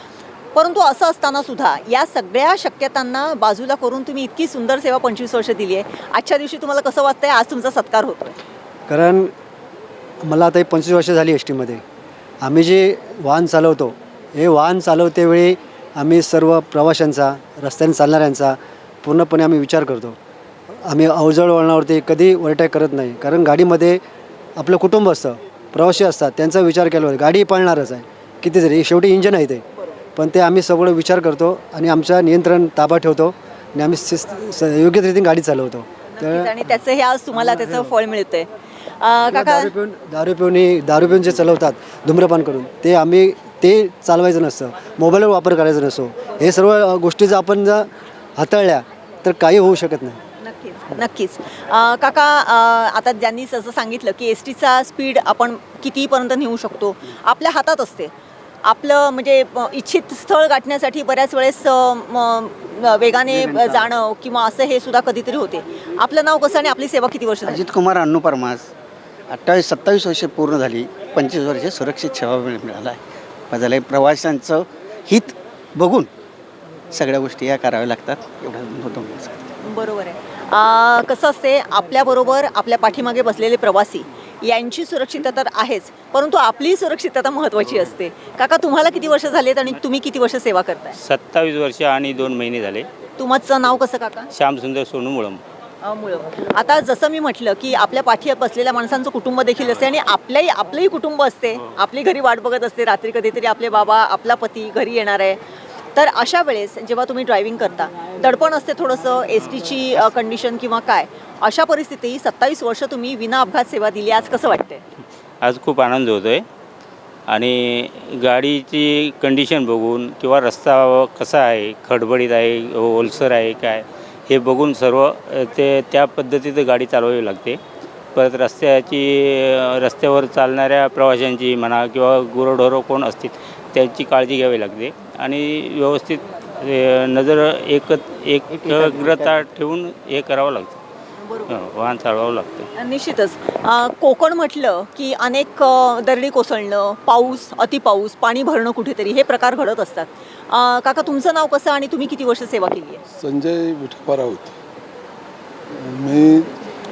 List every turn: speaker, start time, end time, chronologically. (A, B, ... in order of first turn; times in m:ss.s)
0:00.6-0:08.4 A
0:08.9-0:09.3 B
0:10.2-0:11.8 B
0:12.4-0:20.2 B
0:20.9-0:24.0 B
0:24.6-0:29.6 B
0:30.2-0:36.5 B
0:36.2-0:38.5 A
0:39.0-0:39.7 A
0:39.3-0:50.2 B
0:50.4-0:58.1 A
0:58.6-1:07.6 A
1:03.3-1:03.9 C
1:07.4-1:08.7 C
1:09.3-1:16.1 C
1:16.9-1:19.5 C
1:19.6-1:31.0 A
1:31.0-1:32.9 D
1:33.2-1:34.3 A
1:34.3-1:35.4 D
1:35.8-1:45.4 A
1:46.0-1:54.8 A
1:55.4-1:56.4 D
1:57.3-2:07.6 D
2:08.2-2:20.8 D
2:18.5-2:19.5 C
2:21.2-2:21.6 A
2:21.5-2:22.7 D
2:22.8-2:33.0 A
2:33.1-2:34.6 E
2:35.8-2:36.5 E